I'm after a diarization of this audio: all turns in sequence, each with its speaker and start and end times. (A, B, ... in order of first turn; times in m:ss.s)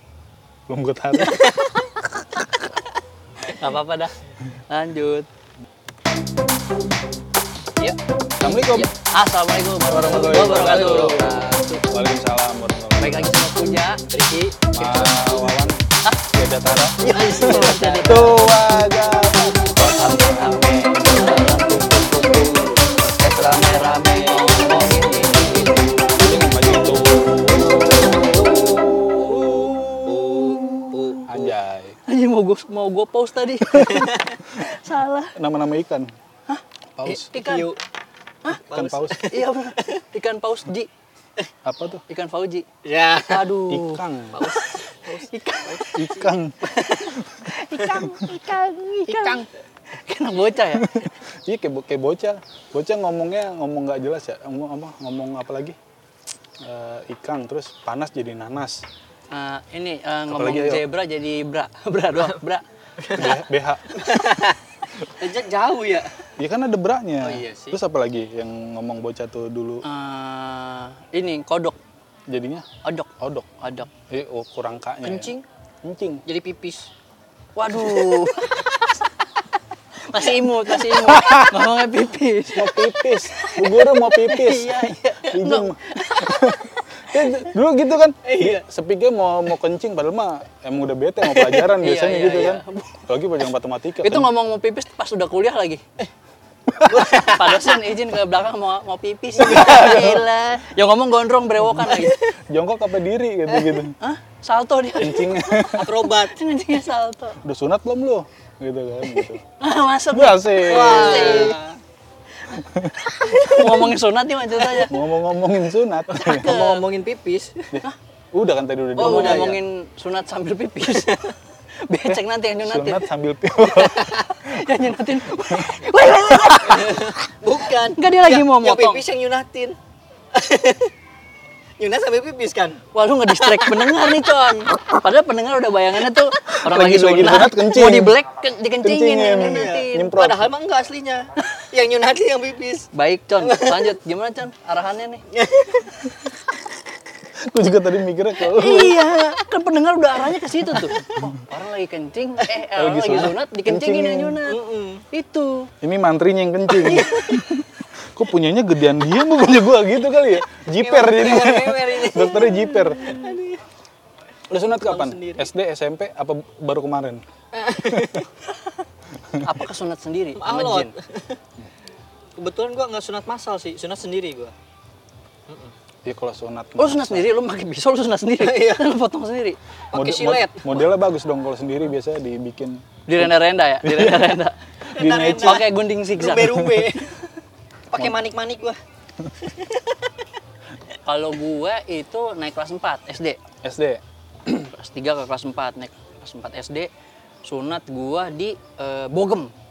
0:00.7-0:01.4 A
0:01.2-0:01.9 B
0:03.6-0:04.2 C
0:04.7-0:05.3 C
0:07.8-0:08.9 B
0:08.4-0:08.9 A
0:09.1-0:11.3 C
0:09.9-0:11.3 A
0:10.1-0:11.8 B
0:11.9-0:13.4 A
0:13.0-0:14.0 C
0:14.1-0:14.6 B
0:14.7-0:22.6 A
0:14.8-0:16.2 C
0:17.0-0:18.4 B
0:17.0-0:18.4 C
0:19.7-0:25.9 C
0:23.5-0:24.8 B
0:26.1-0:28.6 A
0:28.0-0:31.5 B
0:31.3-0:32.0 A
0:32.1-0:35.3 C
0:35.3-0:36.1 A
0:37.0-0:37.3 A
0:37.0-0:37.8 B
0:37.3-0:37.7 C
0:38.5-0:39.9 B
0:38.7-0:39.3 A
0:39.2-0:40.9 C
0:41.6-0:42.0 A
0:42.1-0:42.7 C
0:42.8-0:43.5 B
0:43.3-0:44.0 C
0:43.6-0:44.4 A
0:44.3-0:46.0 B
0:45.3-0:46.1 C
0:45.9-0:46.5 A
0:46.6-0:47.2 B
0:47.4-0:49.5 C
0:48.0-0:48.3 A
0:49.0-0:49.5 B
0:50.0-0:50.9 C
0:50.7-0:55.8 A
0:56.6-0:58.8 A
0:59.3-1:02.6 C
1:00.3-1:00.8 A
1:03.0-1:03.4 B
1:03.1-1:04.0 A
1:03.9-1:06.1 B
1:06.4-1:09.8 A
1:07.2-1:07.8 B
1:09.8-1:11.8 C
1:12.3-1:12.6 A
1:12.8-1:13.9 C
1:13.2-1:13.6 A
1:14.1-1:16.2 A
1:15.1-1:15.4 B
1:15.1-1:15.4 C
1:16.2-1:16.9 B
1:17.6-1:18.8 C
1:20.1-1:27.3 C
1:20.7-1:21.9 A
1:22.5-1:34.3 A
1:28.2-1:28.6 B
1:31.6-1:33.0 C
1:34.0-1:35.8 C
1:36.8-1:37.8 B
1:37.1-1:42.2 C
1:39.4-1:40.2 A
1:39.4-1:40.1 B
1:41.8-1:44.0 A
1:41.9-1:42.3 B
1:43.5-1:43.8 B
1:44.0-1:47.4 C
1:45.0-1:46.0 A
1:45.7-1:46.4 B
1:47.4-1:49.4 A
1:49.6-1:51.6 C
1:50.1-1:51.5 A
1:50.7-1:51.7 B
1:52.5-1:53.1 A
1:53.1-1:54.9 C
1:53.2-1:53.9 B
1:54.8-1:56.5 A
1:56.1-1:56.8 C
1:56.1-1:57.7 B
1:57.7-1:59.6 A
1:59.0-1:59.6 B
1:59.0-2:01.2 C
2:00.8-2:01.3 B
2:01.8-2:03.1 C
2:02.1-2:04.9 A
2:04.2-2:07.1 C
2:06.6-2:09.8 B
2:07.9-2:09.0 C
2:10.3-2:10.9 B
2:11.8-2:14.3 B
2:12.9-2:20.1 C
2:16.5-2:18.2 A
2:18.8-2:20.5 A
2:19.4-2:23.9 B
2:22.9-2:25.2 C
2:25.3-2:26.0 B
2:27.4-2:29.0 A
2:28.4-2:35.7 C
2:32.7-2:34.4 A
2:34.4-2:35.0 B
2:35.8-2:43.2 A
2:36.8-2:37.4 B
2:40.8-2:43.6 B
2:44.5-2:47.2 A
2:44.8-2:45.5 B
2:47.5-2:48.3 B
2:47.8-2:48.2 A
2:49.4-2:50.9 C
2:50.4-2:51.4 B
2:52.4-2:54.5 B
2:56.0-2:57.3 A
2:56.8-2:59.6 C
2:58.4-2:58.9 B
2:59.9-3:00.9 B
2:59.9-3:04.4 A
3:03.1-3:04.6 C
3:04.9-3:07.2 B
3:05.0-3:05.7 A
3:05.3-3:06.7 C
3:07.9-3:08.8 B
3:09.4-3:10.0 B
3:11.0-3:13.4 C
3:13.6-3:14.7 A
3:14.5-3:16.9 C
3:17.4-3:19.5 C